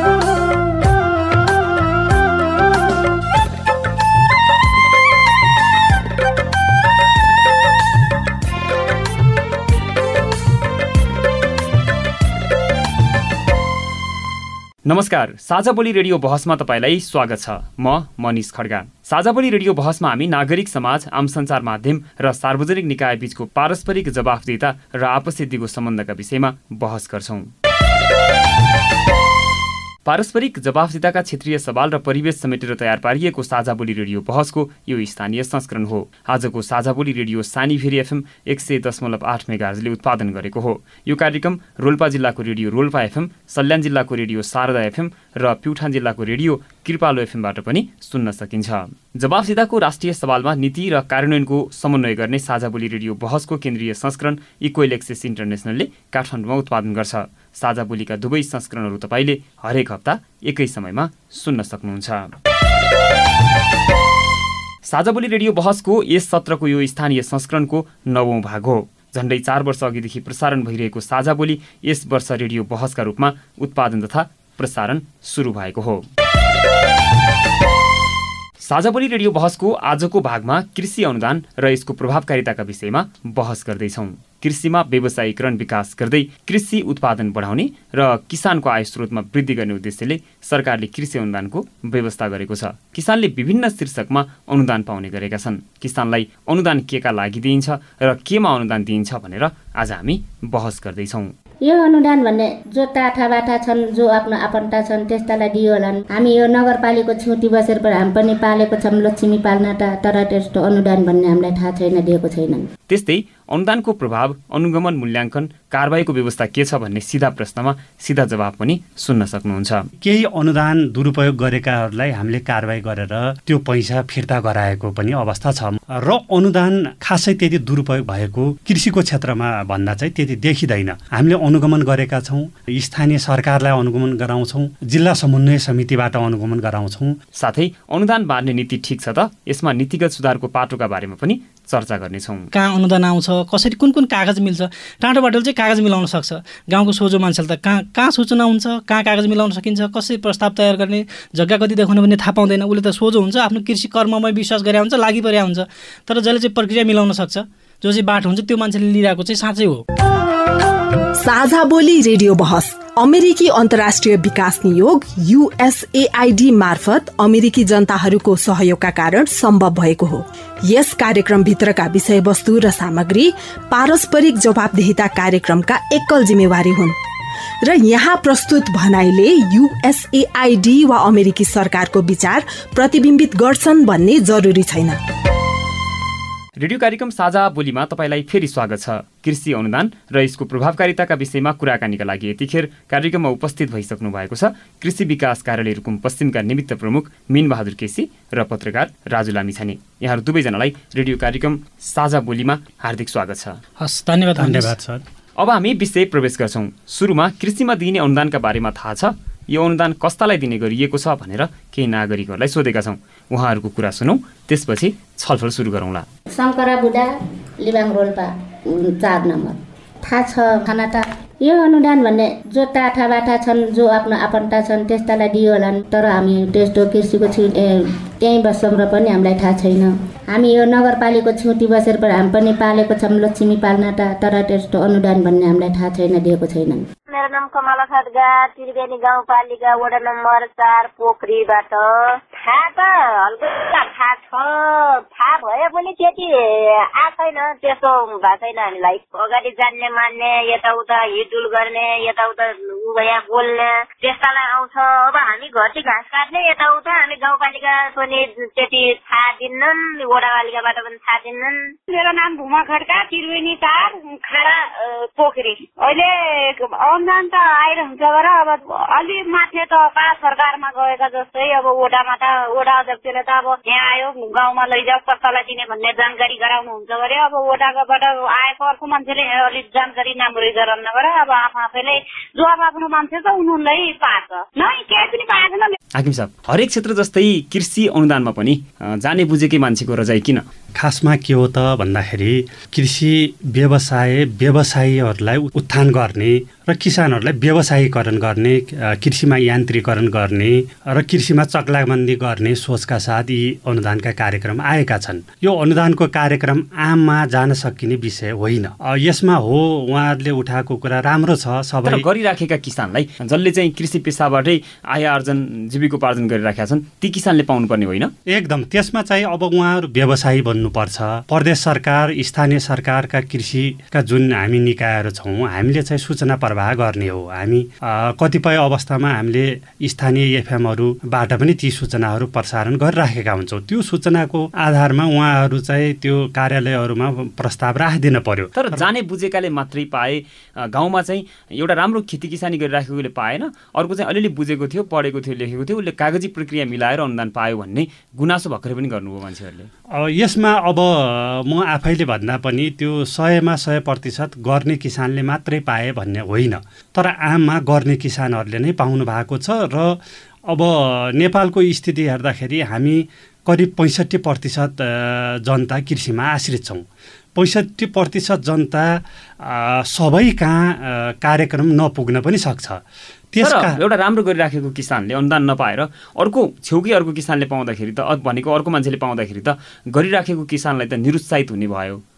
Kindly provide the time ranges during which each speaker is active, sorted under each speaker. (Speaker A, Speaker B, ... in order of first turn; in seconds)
Speaker A: 14.8-27.5, 30.1-62.3, 64.9-76.1, 78.6-101.3, 112.9-119.9, 137.4-142.5, 186.6-203.6, 205.4-216.1, 285.9-290.4, 311.9-318.1, 338.6-349.7, 373.4-382.0
Speaker B: 101.7-112.7, 216.3-217.1, 217.6-236.8
Speaker C: 120.0-137.2, 204.4-205.0, 290.8-312.1, 318.3-338.9, 349.9-373.8
Speaker D: 142.5-159.8, 203.8-204.8
Speaker E: 161.2-177.0, 177.6-185.0
Speaker F: 237.1-261.7
Speaker G: 261.9-285.8